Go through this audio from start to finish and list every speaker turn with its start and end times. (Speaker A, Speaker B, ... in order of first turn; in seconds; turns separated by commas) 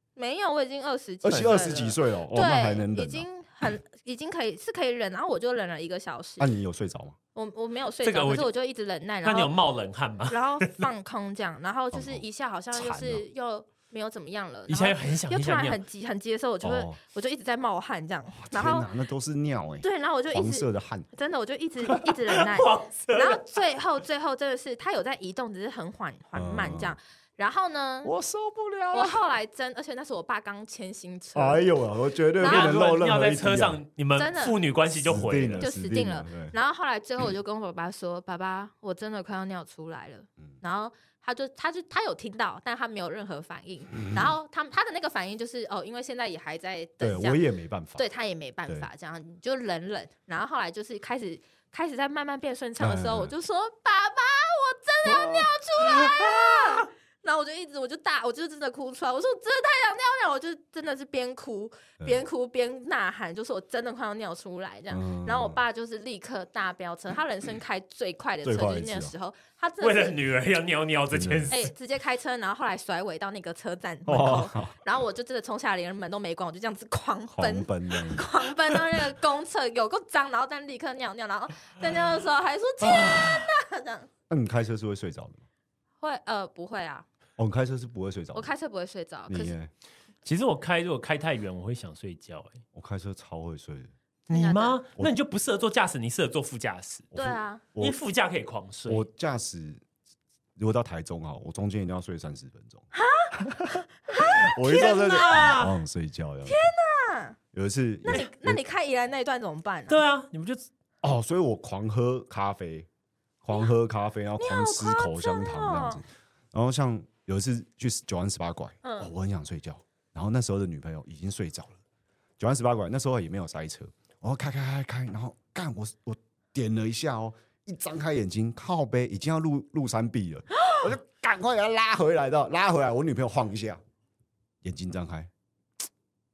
Speaker A: 0.1-6.5, Speaker B: 1.2-3.2, Speaker B: 6.4-7.2, Speaker A: 7.3-9.5, Speaker C: 8.0-8.5, Speaker C: 9.2-10.9, Speaker A: 10.3-18.9, Speaker B: 11.9-13.2, Speaker C: 14.7-15.8, Speaker B: 16.6-17.0, Speaker B: 18.3-21.1, Speaker A: 19.8-28.1, Speaker C: 22.3-23.4, Speaker B: 26.3-26.9, Speaker B: 28.0-29.2, Speaker A: 28.9-31.7, Speaker B: 31.3-33.8, Speaker A: 32.4-32.8, Speaker C: 32.4-35.6, Speaker A: 34.1-34.6, Speaker B: 35.0-36.5, Speaker A: 35.6-47.4, Speaker B: 44.0-44.3, Speaker B: 47.0-48.0, Speaker A: 48.0-70.2, Speaker B: 52.8-53.3, Speaker B: 55.0-55.5, Speaker B: 64.9-65.6, Speaker B: 68.4-69.1, Speaker C: 69.8-71.7, Speaker B: 71.1-71.5, Speaker A: 71.5-84.1, Speaker B: 74.1-74.8, Speaker B: 77.3-78.8, Speaker B: 84.3-85.4, Speaker A: 86.0-87.0, Speaker B: 87.4-88.5, Speaker A: 88.3-89.5, Speaker B: 89.3-89.7, Speaker C: 90.2-92.6, Speaker B: 92.7-93.9, Speaker C: 94.3-97.1, Speaker A: 94.3-94.8, Speaker B: 97.1-98.0, Speaker A: 97.1-97.6, Speaker C: 97.8-99.0, Speaker B: 98.9-99.8, Speaker B: 100.6-106.6, Speaker A: 102.9-105.6, Speaker C: 104.7-105.8, Speaker A: 106.5-107.4, Speaker B: 107.5-108.6, Speaker A: 108.0-110.0, Speaker C: 109.9-110.6, Speaker B: 111.0-112.9, Speaker B: 113.4-121.8, Speaker A: 114.4-116.0, Speaker A: 118.8-119.1, Speaker B: 122.4-133.8, Speaker B: 134.6-135.3